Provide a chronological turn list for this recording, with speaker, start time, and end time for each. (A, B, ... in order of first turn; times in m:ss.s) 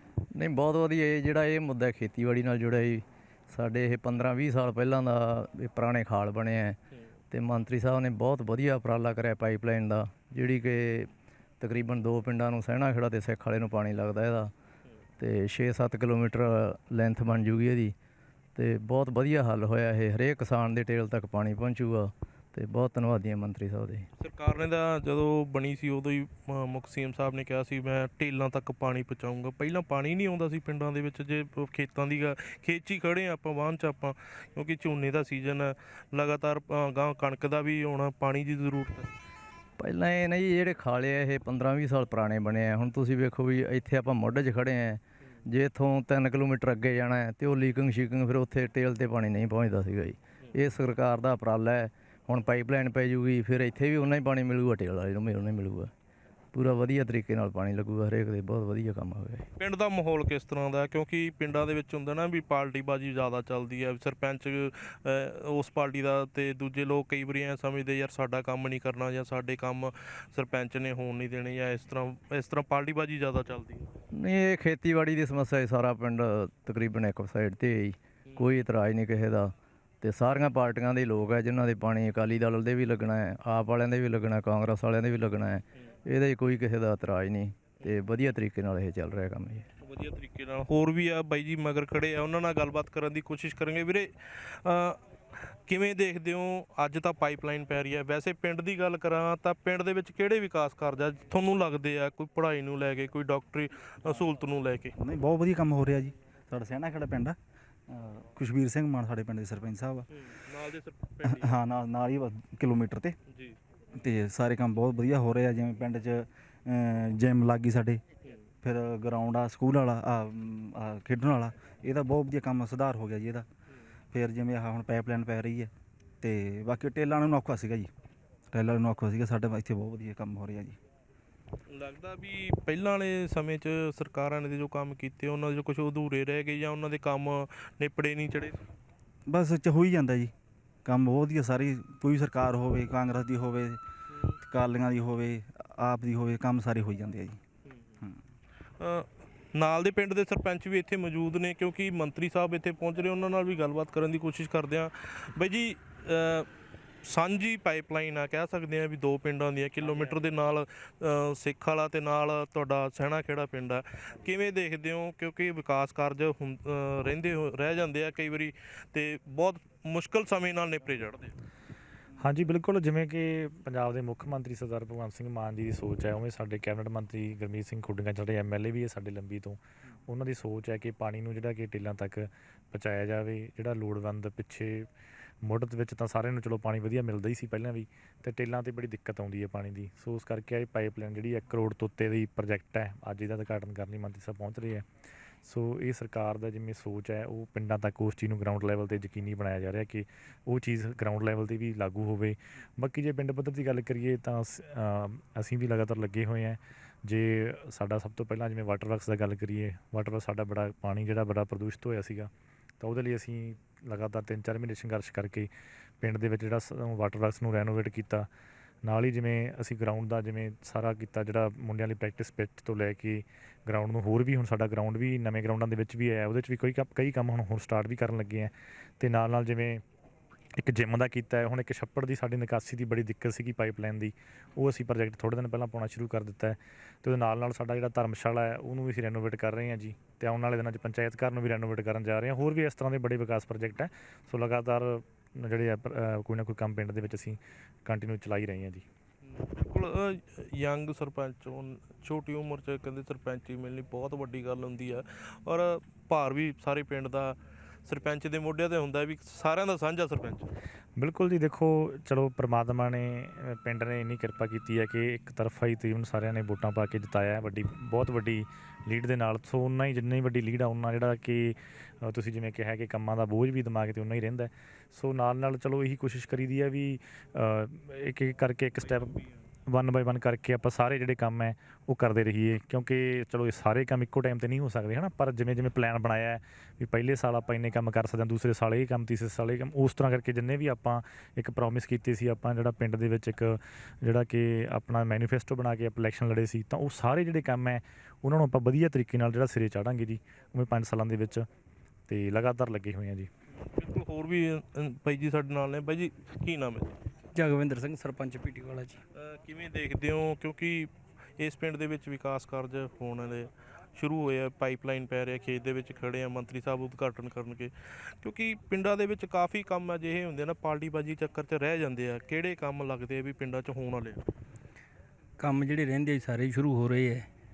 0:00.3-0:06.8 A
0:07.3-0:14.5 A
0:15.2-0:17.9 A
0:18.5-0:24.1 A
0:24.2-0:39.1 B
0:39.8-0:55.9 A
0:56.5-0:59.5 A
0:59.6-1:13.9 B
1:14.1-1:29.6 A
1:29.8-1:35.0 B
1:35.7-1:44.9 B
1:45.0-1:47.4 C
1:47.9-1:50.0 C
1:50.1-1:51.5 B
1:51.3-1:53.2 C
1:53.3-1:53.6 B
1:54.0-1:58.0 C
1:58.6-2:03.4 C
2:04.1-2:07.9 C
2:08.5-2:10.8 C
2:11.7-2:18.6 B
2:19.3-2:20.3 C
2:20.8-2:23.8 C
2:24.5-2:27.4 C
2:27.6-2:28.0 B
2:28.8-2:36.5 B
2:37.0-2:51.3 B
2:52.2-3:04.9 D
3:05.4-3:14.8 D
3:15.4-3:35.5 D
3:36.0-3:38.3 D
3:38.8-3:49.8 D
3:50.6-4:08.8 D
4:09.2-4:20.5 B
4:21.0-4:39.1 D
4:38.8-4:39.3 B
4:39.7-5:01.4 D
5:02.1-5:03.3 D
5:03.6-5:07.0 B
5:07.3-5:09.0 E
5:09.2-5:24.2 B
5:25.4-5:27.3 E